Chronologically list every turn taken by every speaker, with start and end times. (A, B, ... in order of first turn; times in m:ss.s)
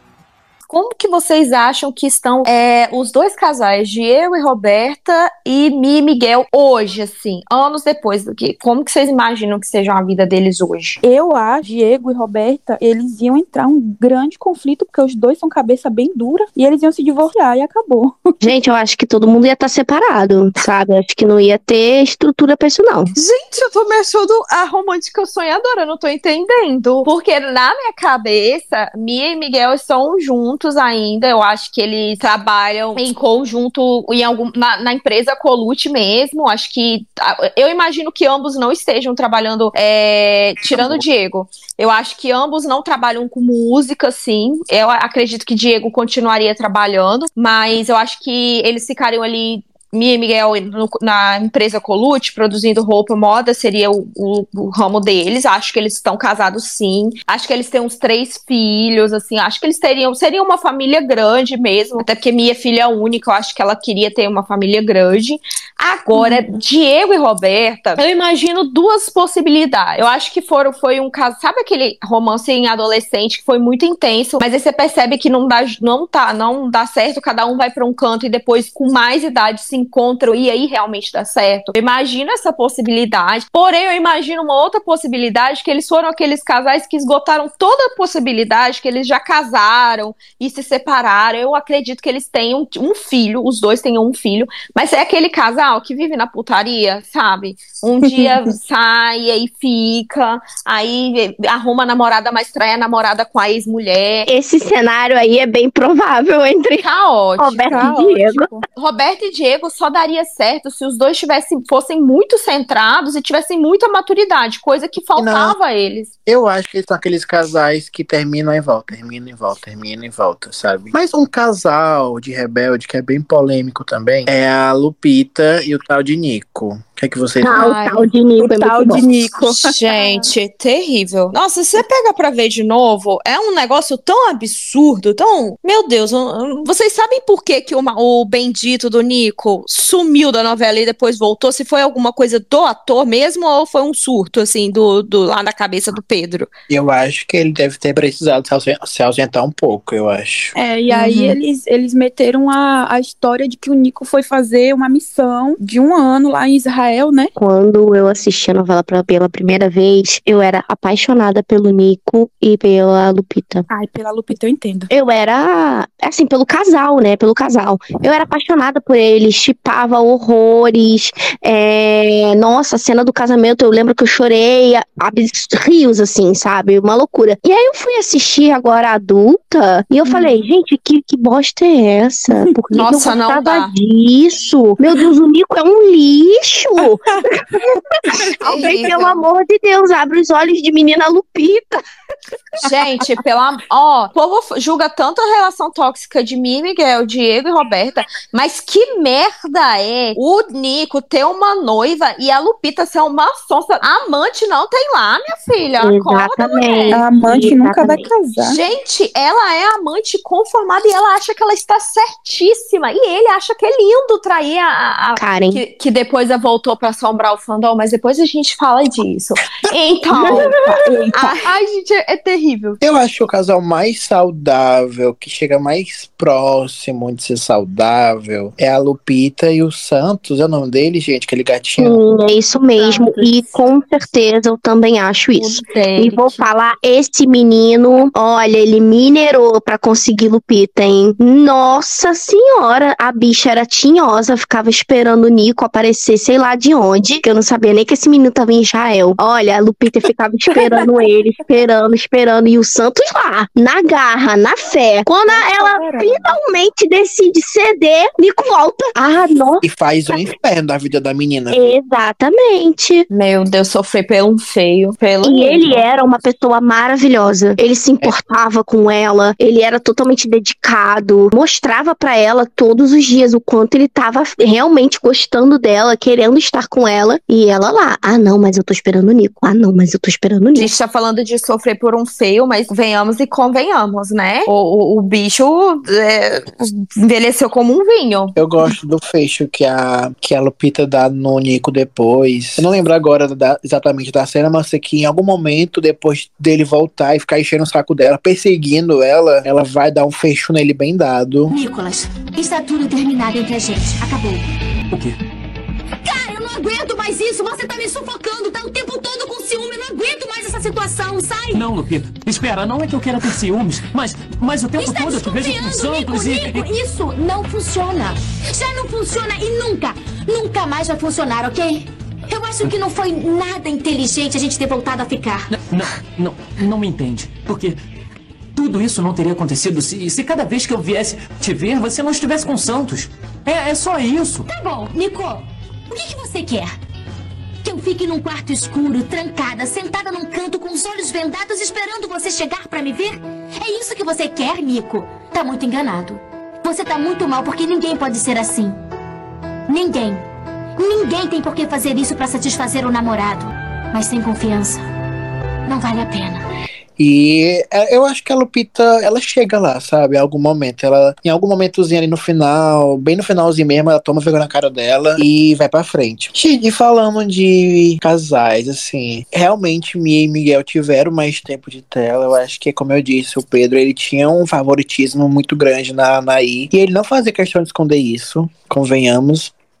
0:00.7-0:11.0 A
0:11.0-0:18.2 B
0:18.4-0:23.1 C
0:23.1-1:44.3 A
0:40.7-0:41.0 D
1:44.3-1:46.8 C
1:46.8-1:47.9 A
1:47.4-1:48.5 C
1:47.7-1:48.6 B
1:48.7-1:56.1 A
1:55.2-1:55.6 D
1:56.2-2:07.7 D
2:07.4-2:09.0 C
2:07.5-2:08.1 A
2:08.4-2:10.2 B
2:09.5-2:26.5 A
2:26.7-2:30.5 D
2:30.6-2:37.3 B
2:31.0-2:31.3 C
2:37.4-2:43.6 C
2:43.7-2:44.9 B
2:44.9-3:11.8 C
3:02.7-3:03.7 A
3:08.4-3:09.2 A
3:12.6-3:27.0 A
3:25.8-3:28.1 C
3:26.9-3:28.6 B
3:28.5-3:40.6 A
3:35.2-3:35.6 C
3:40.1-3:41.1 C
3:40.3-3:41.4 B
3:41.1-3:42.8 A
3:42.8-3:52.0 D
3:51.8-4:20.2 C
3:52.8-3:53.3 A
3:55.3-3:56.4 A
4:15.2-4:16.3 B
4:19.6-4:21.7 D
4:21.5-4:23.1 C
4:23.1-4:25.8 A
4:25.2-4:40.7 C
4:40.5-4:48.4 A
4:48.4-5:01.5 D
5:01.5-5:04.4 E
5:04.9-5:05.2 F
5:06.0-5:11.6 E
5:11.5-5:16.7 F
5:14.8-5:25.4 E
5:25.7-5:27.8 F
5:28.5-5:34.5 F
5:34.5-5:36.7 E
5:37.6-5:48.8 E
5:49.7-5:50.2 E
5:50.8-5:54.8 E
5:55.6-5:56.4 E
5:57.0-6:19.5 D